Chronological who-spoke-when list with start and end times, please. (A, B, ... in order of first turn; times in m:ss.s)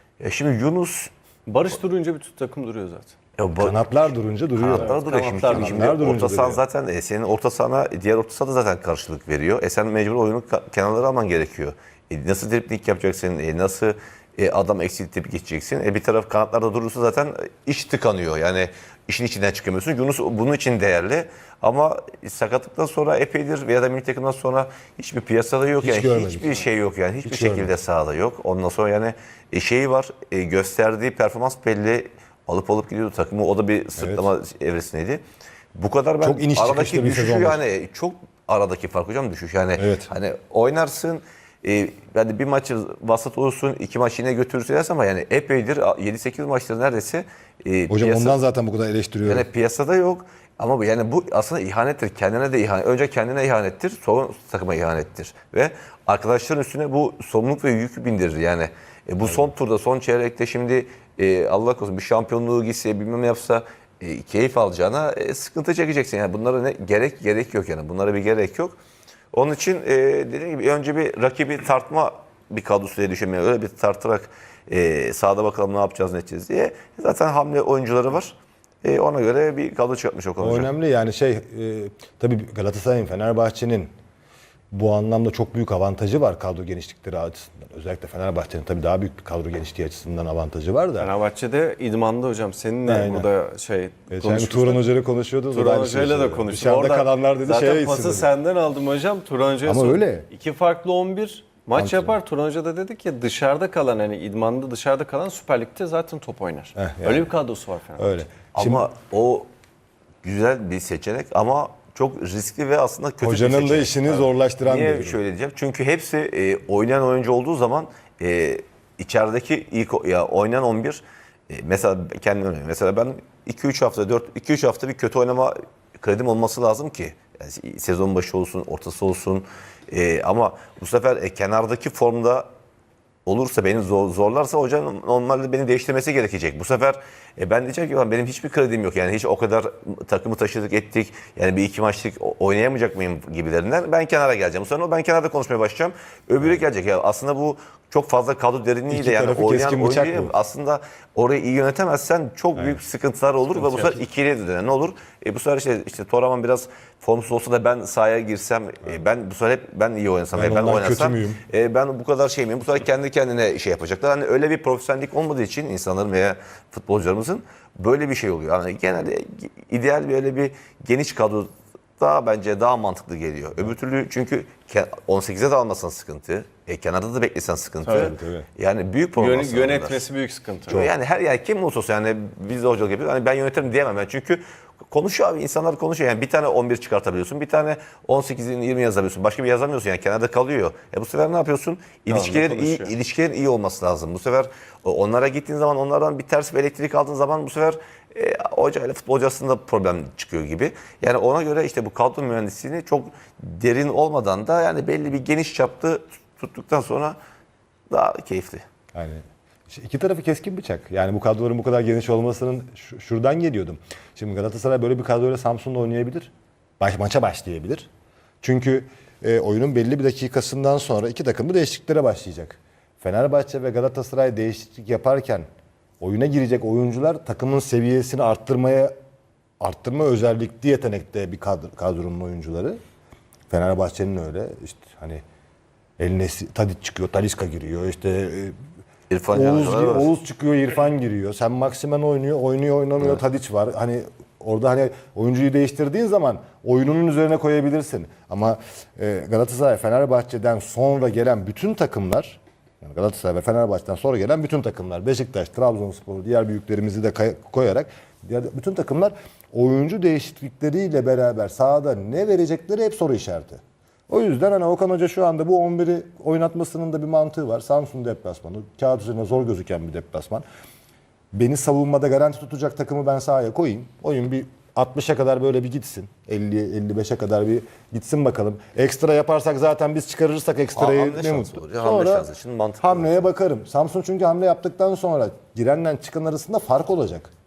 0:00.2-0:01.1 A
0:01.5-0:03.2 B
0:03.4-0:35.2 A
0:03.6-0:06.6 C
0:04.7-0:05.9 B
0:25.8-0:26.7 C
0:27.2-0:27.7 C
0:34.0-0:34.3 C
0:35.8-0:48.4 A
0:36.2-0:37.6 C
0:39.8-0:40.1 C
0:47.9-0:49.5 C
0:49.2-1:08.8 A
1:09.3-1:20.7 A
1:20.4-1:23.9 C
1:24.7-1:31.1 C
1:31.0-1:34.8 B
1:32.8-1:33.3 C
1:34.1-1:38.3 C
1:35.5-1:48.2 B
1:39.6-1:40.3 C
1:41.8-1:42.2 C
1:46.8-1:47.3 C
1:48.0-1:48.8 C
1:48.5-1:49.5 A
1:50.2-2:12.5 A
1:53.2-1:55.2 C
2:13.3-3:00.0 A
2:28.9-2:30.3 C
2:33.6-2:34.0 C
2:40.4-2:41.4 C
2:57.8-2:58.2 B
2:57.9-2:58.5 C
2:59.2-3:00.9 B
3:00.7-3:27.2 A
3:12.1-3:13.0 B
3:27.9-3:28.6 A
3:28.9-3:37.9 C
3:38.4-3:45.4 C
3:46.0-3:48.9 C
3:49.6-3:52.8 C
3:53.5-3:55.2 C
3:56.0-3:58.6 C
3:59.1-4:00.1 A
3:59.3-4:30.4 C
4:31.3-4:42.3 C
4:40.8-4:43.2 A
4:42.8-4:47.3 C